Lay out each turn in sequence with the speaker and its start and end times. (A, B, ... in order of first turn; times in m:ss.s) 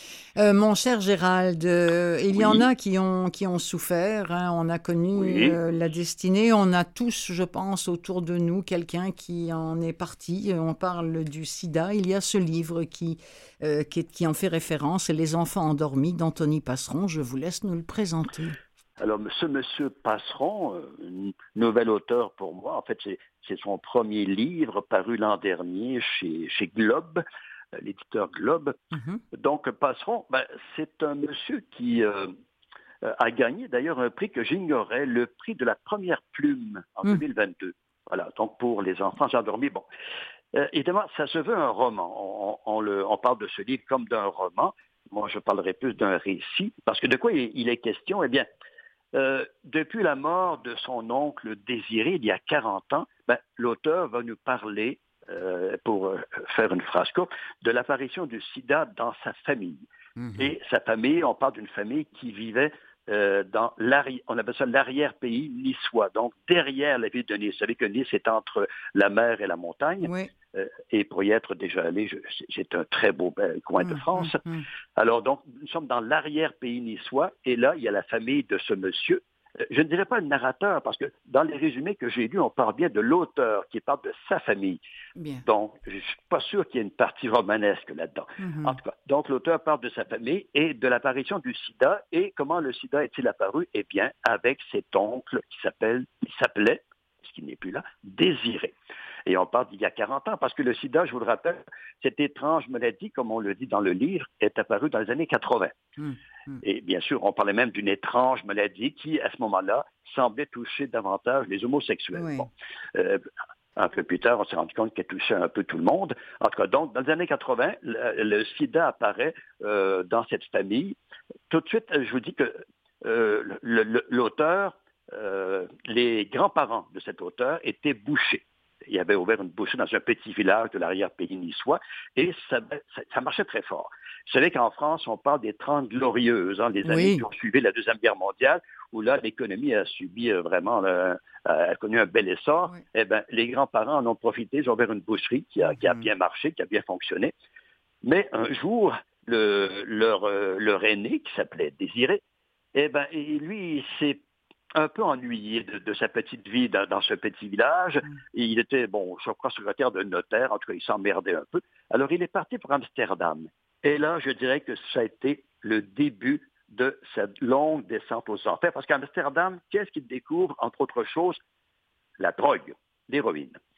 0:00.4-0:18.6 A
0:02.4-0:02.7 B
0:05.2-0:05.6 B
0:19.0-0:27.2 B
0:27.8-0:28.8 B
0:28.9-0:29.2 A
0:29.4-0:32.3 B
0:33.0-0:39.8 B
0:40.5-0:48.5 B
0:49.1-0:59.8 B
1:00.2-1:00.6 A
1:00.4-1:14.4 B
1:10.0-1:10.3 A
1:13.8-1:14.7 A
1:15.0-1:24.8 B
1:25.2-1:25.4 A
1:25.4-1:38.8 B
1:28.4-1:28.8 A
1:39.3-1:45.8 B
1:46.0-1:46.6 A
1:46.6-1:53.2 B
1:52.2-1:52.5 A
1:53.8-2:01.0 B
2:01.5-2:27.3 B
2:16.8-2:17.2 A
2:25.7-2:26.1 A
2:28.0-2:32.2 B
2:32.8-2:34.2 B
2:34.8-2:51.4 B
2:52.2-2:53.6 B